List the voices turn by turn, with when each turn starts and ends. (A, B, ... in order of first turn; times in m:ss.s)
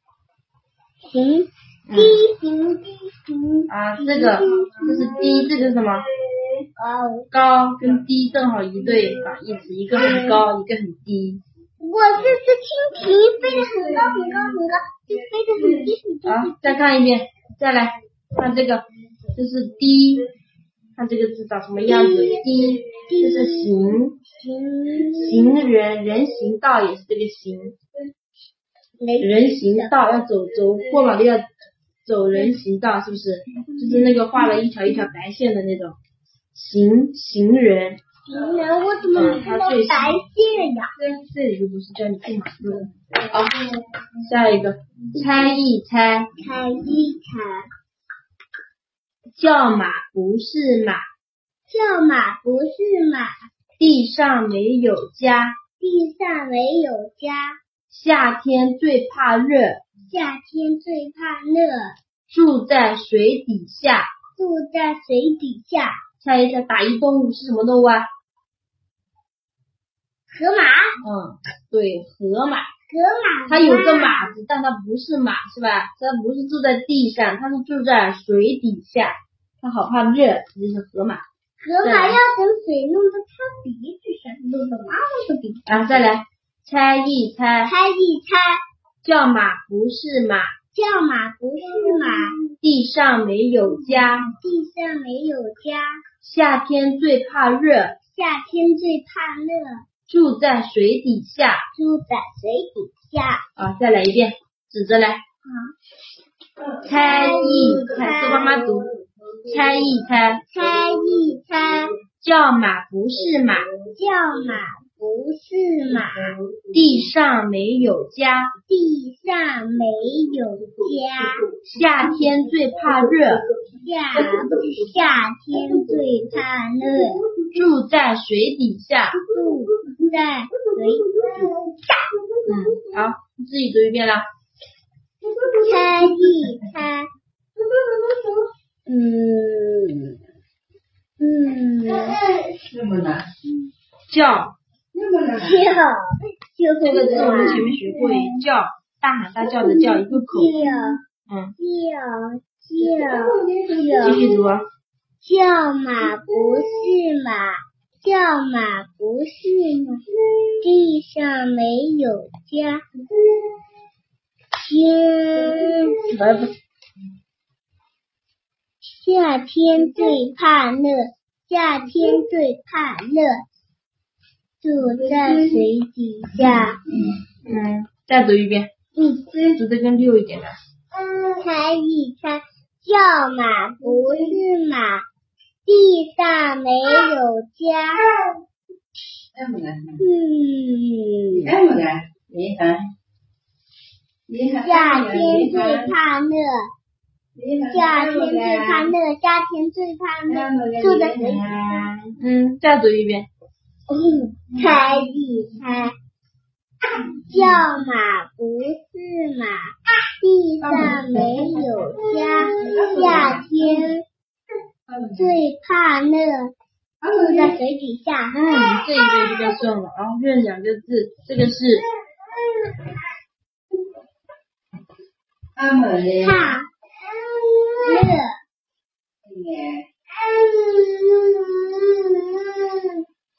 0:01.1-0:05.3 A
0:01.9-0:02.2 B
0:03.7-0:06.1 B
0:04.6-0:06.7 C
0:06.8-0:07.3 A
0:07.3-0:11.4 B
0:08.9-0:09.4 C
0:09.9-0:10.4 A
0:11.8-0:16.9 A
0:13.5-0:14.5 C
0:15.6-0:15.9 C
0:16.2-0:18.8 B
0:19.4-0:20.3 B
0:21.0-0:24.2 B
0:21.8-0:23.8 A
0:24.3-0:25.6 A
0:25.1-0:27.8 B
0:29.0-0:30.0 A
0:29.2-0:31.5 B
0:32.0-0:36.0 B
0:36.5-0:38.0 B
0:38.3-0:40.9 A
0:39.1-0:40.2 B
0:41.0-0:43.7 B
0:44.2-0:46.3 B
0:46.4-0:47.7 A
0:49.4-0:51.0 B
0:51.7-0:53.3 A
0:53.8-0:55.6 B
0:55.8-0:57.6 A
0:57.9-0:59.8 B
1:00.1-1:02.0 A
1:02.3-1:04.1 B
1:04.4-1:06.0 A
1:06.2-1:08.1 B
1:10.3-1:10.9 A
1:11.0-1:12.7 B
1:12.9-1:14.3 A
1:13.5-1:21.2 B
1:21.6-1:25.7 A
1:21.8-1:22.2 B
1:25.7-1:27.7 B
1:27.6-1:28.6 A
1:29.0-1:30.5 B
1:30.7-1:32.4 A
1:31.9-1:32.3 C
1:32.6-1:34.3 B
1:34.4-1:36.0 A
1:36.2-1:38.0 B
1:38.1-1:39.8 A
1:40.1-1:41.6 B
1:41.8-1:43.4 A
1:43.6-1:45.2 B
1:45.4-1:45.7 A
1:46.6-1:51.2 C
1:46.8-1:48.9 B
1:46.9-1:48.7 A
1:49.5-1:50.4 B
1:50.5-1:52.0 A
1:52.2-1:53.7 B
1:53.9-1:56.4 A
1:56.0-1:57.1 C
1:56.7-1:58.5 B
1:58.7-2:01.5 A
2:00.7-2:03.3 C
2:01.7-2:03.4 B
2:03.8-2:07.3 A
2:04.1-2:05.0 C
2:05.7-2:06.3 C
2:07.5-2:09.2 B
2:09.3-2:12.0 A
2:10.7-2:12.9 C
2:12.5-2:14.2 B
2:15.2-2:16.7 C
2:15.6-2:17.1 A
2:17.6-2:18.5 C
2:18.9-2:20.2 A
2:21.2-2:22.4 A
2:21.9-2:23.3 C
2:23.4-2:23.7 A
2:24.1-2:24.6 B
2:24.9-2:25.7 C
2:25.4-2:27.7 A
2:26.8-2:30.6 B
2:27.1-2:28.4 C
2:29.4-2:30.9 C
2:30.2-2:31.0 A
2:31.3-2:31.5 B
2:31.6-2:34.3 A
2:32.8-2:34.4 C
2:34.0-2:34.6 B
2:35.2-2:40.0 A
2:36.2-2:36.7 C
2:40.6-2:42.8 A
2:44.6-2:45.8 A
2:45.8-2:46.5 B
2:48.9-2:53.4 A
2:54.6-2:56.8 A
2:54.8-2:55.7 C
2:57.4-2:58.7 B
2:59.0-2:59.5 A
2:59.2-2:59.6 C
2:59.6-3:00.6 B
3:01.3-3:05.1 A
3:03.8-3:04.4 C
3:05.7-3:08.1 A
3:09.3-3:10.0 C
3:10.0-3:11.6 A
3:11.4-3:12.9 C
3:14.3-3:15.9 C
3:14.6-3:16.7 A
3:17.4-3:18.9 C
3:17.7-3:21.7 A
3:20.3-3:21.9 C
3:22.0-3:23.3 B
3:23.9-3:26.0 A
3:24.6-3:25.0 C
3:27.0-3:34.0 A
3:30.6-3:33.9 C
3:34.9-3:35.4 C
3:35.1-3:36.5 A
3:37.0-3:37.6 C
3:37.1-3:38.8 A
3:38.3-3:41.9 B
3:42.4-3:42.9 C
3:45.6-3:46.6 C
3:46.2-3:46.7 A
3:47.1-3:48.2 C
3:47.8-3:48.4 A
3:49.3-3:52.9 C